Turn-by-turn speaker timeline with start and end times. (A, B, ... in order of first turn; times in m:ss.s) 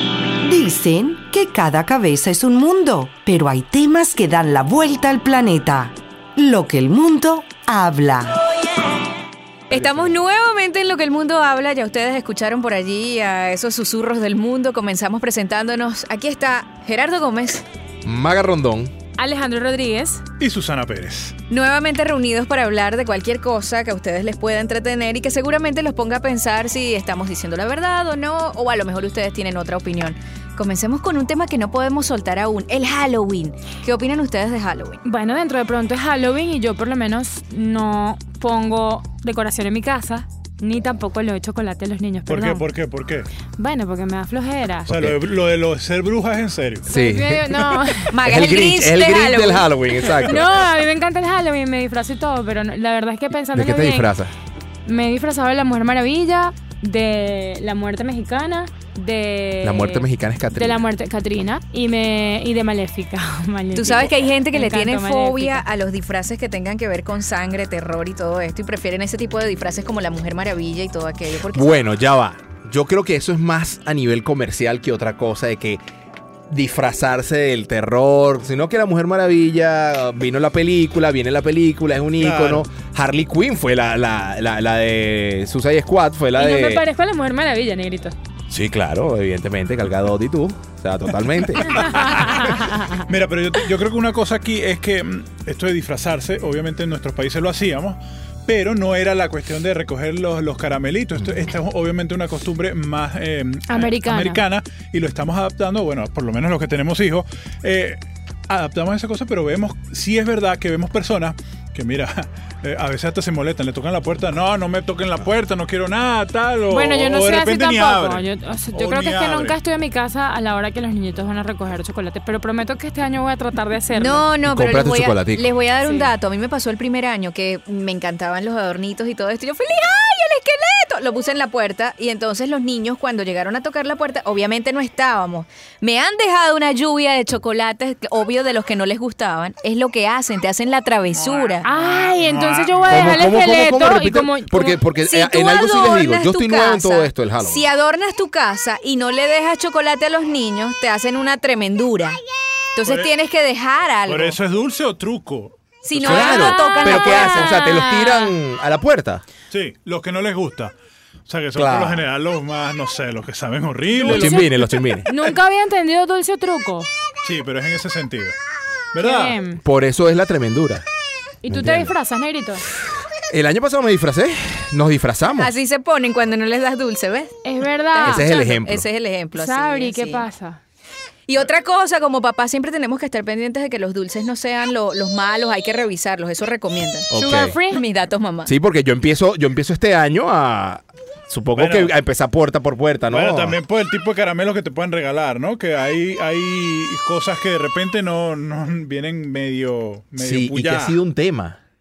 0:00.4-0:08.4 A
0:09.7-0:17.6 B
0:18.0-0:18.9 C
0:19.2-0:20.2 D
0:20.4-0:21.4 E
0:21.5-0:35.0 B
0:35.0-0:42.6 D
0:42.3-0:43.3 E
0:43.6-0:44.9 D
0:44.9-0:45.2 C
0:44.9-0:46.9 E
0:46.8-0:50.5 C
0:46.9-0:48.1 D
0:48.1-0:49.7 B
0:50.2-0:54.1 D
0:53.5-0:54.3 C
0:54.8-1:05.6 D
0:59.6-1:00.8 C
1:03.7-1:11.8 B
1:11.5-1:15.8 C
1:16.5-1:26.8 C
1:22.2-1:22.7 E
1:26.3-1:28.2 D
1:28.5-1:32.5 C
1:31.9-1:59.6 E
1:32.3-1:33.0 D
1:43.7-1:44.4 D
1:56.7-2:04.2 D
2:03.9-2:21.6 B
2:04.4-2:05.5 C
2:05.8-2:06.1 D
2:21.1-2:23.2 E
2:21.6-2:24.8 D
2:22.9-2:27.6 C
2:25.0-2:32.2 B
2:32.7-2:34.4 B
2:34.1-2:36.4 E
2:35.8-2:37.6 B
2:35.9-2:39.2 C
2:36.1-2:38.4 D
2:39.5-2:40.7 E
2:41.3-2:44.5 E
2:41.5-2:42.1 C
2:43.9-2:46.9 D
2:44.1-2:45.1 C
2:47.2-2:48.4 E
2:48.9-2:49.4 E
2:49.0-2:49.6 D
2:49.6-2:50.8 C
2:51.4-2:52.6 D
2:51.5-2:51.9 C
2:53.3-2:55.5 C
2:55.4-2:57.3 B
2:57.4-2:58.3 D
2:57.9-3:00.2 B
2:58.0-2:58.8 C
2:59.3-3:00.6 D
3:01.3-3:07.1 B
3:07.1-3:07.6 C
3:07.1-3:07.8 D
3:07.6-3:08.5 B
3:08.4-3:13.6 C
3:11.5-3:11.9 E
3:13.1-3:21.0 E
3:20.2-3:21.6 C